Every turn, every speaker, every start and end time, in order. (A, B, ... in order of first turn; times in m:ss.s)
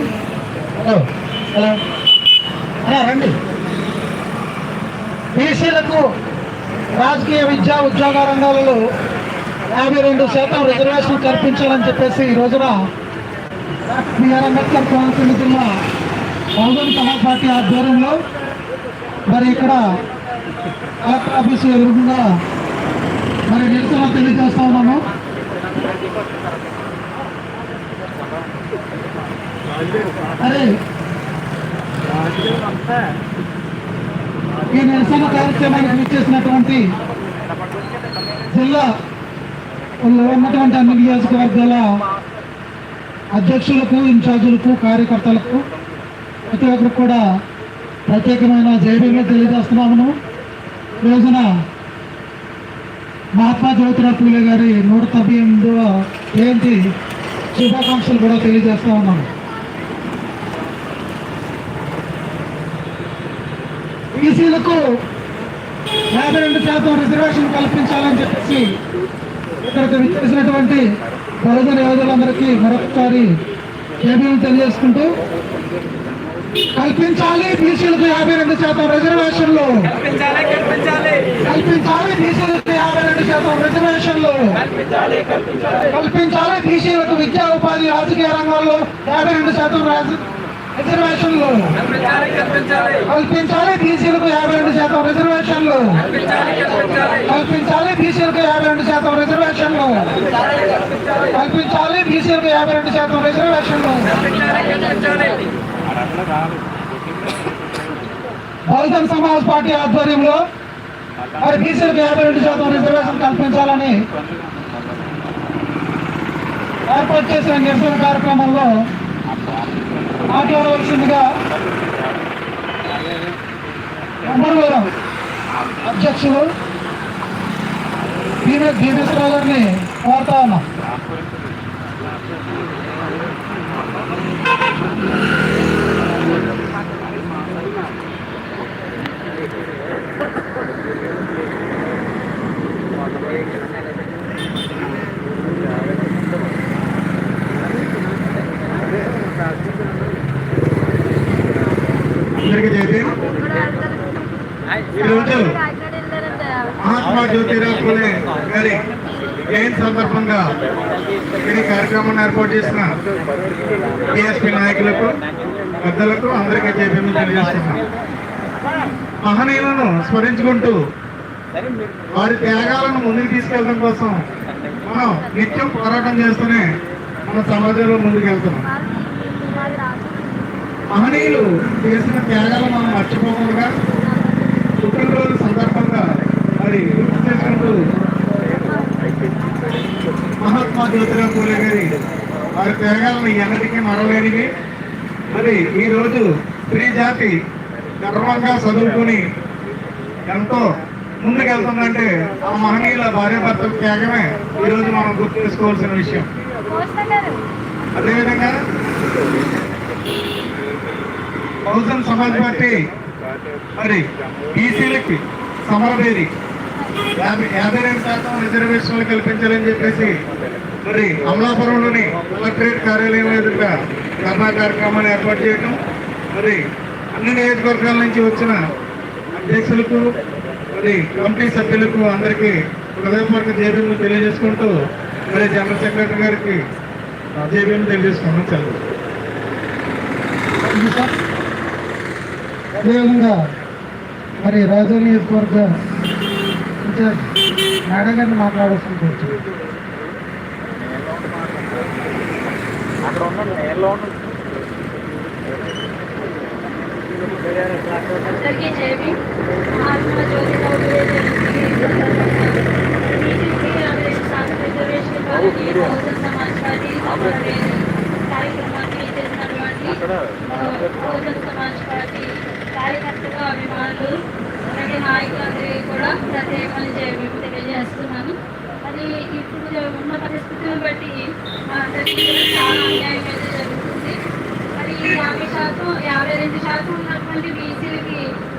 0:00.8-0:01.8 A
0:02.8-0:03.4 A
0:05.3-0:06.0 A
0:07.0-0:08.8 A
0:09.7-0:12.8 A
0:13.9-0:15.7 A
0:16.6-0:18.2 A
0:19.3-0:19.8 A
0:21.0-0:22.2 A
0:23.5-0:25.0 A
0:30.4-0:30.7 A
0:34.7-0:36.8 A
0:38.5-0:38.8 A
0:40.0-0:41.9 A
0:43.4-0:45.7 A
0:46.5-0:47.2 A
0:48.1-0:50.1 A
0:51.0-0:51.5 A
0:53.4-0:56.8 A
0:57.5-0:59.3 A
1:04.2-1:04.8 A
1:06.1-1:08.7 A
1:09.6-1:10.8 A
1:11.4-1:13.3 A
1:14.0-1:15.1 A
1:16.8-1:19.8 A
1:20.6-1:20.9 B
1:21.4-1:24.6 A
1:25.8-1:30.2 A
1:30.8-1:31.7 A
1:33.1-1:36.0 A
1:36.4-1:36.8 B
1:37.3-1:40.1 A
1:41.3-1:44.2 A
1:44.3-1:45.4 B
1:48.7-1:50.4 A
1:51.4-1:54.0 A
1:56.9-1:58.7 A
2:00.3-2:01.2 A
2:04.2-2:04.9 A
2:05.9-2:06.4 A
2:08.4-2:10.6 A
2:32.4-2:33.1 C
2:35.0-2:35.5 C
2:36.8-2:38.8 C
2:39.5-2:40.4 C
2:41.4-2:42.9 C
2:44.1-2:45.2 C
2:45.8-2:47.8 C
2:49.2-2:50.8 C
2:52.2-2:54.2 C
2:54.9-2:56.6 C
2:57.3-2:58.6 C
2:59.0-3:00.1 B
3:00.9-3:03.7 C
3:04.8-3:06.0 C
3:06.6-3:07.8 C
3:10.4-3:11.9 C
3:12.6-3:14.5 C
3:15.3-3:17.3 C
3:18.0-3:19.2 C
3:20.3-3:20.6 C
3:21.2-3:26.3 C
3:26.7-3:27.4 B
3:27.9-3:28.5 C
3:31.7-3:32.8 C
3:33.8-3:36.3 C
3:37.2-3:40.1 C
3:40.8-3:45.8 C
3:46.3-3:46.6 C
3:47.2-3:48.6 C
3:49.4-3:50.0 C
3:50.7-3:54.7 C
3:55.3-3:56.6 C
3:57.4-3:58.8 C
4:00.7-4:01.1 A
4:02.8-4:03.4 A
4:04.4-4:05.7 A
4:06.8-4:07.3 A
4:07.9-4:09.4 A
4:18.3-4:19.2 B
4:19.8-4:34.1 B
4:34.7-4:41.2 B
4:41.7-4:44.2 B
4:44.8-4:48.2 B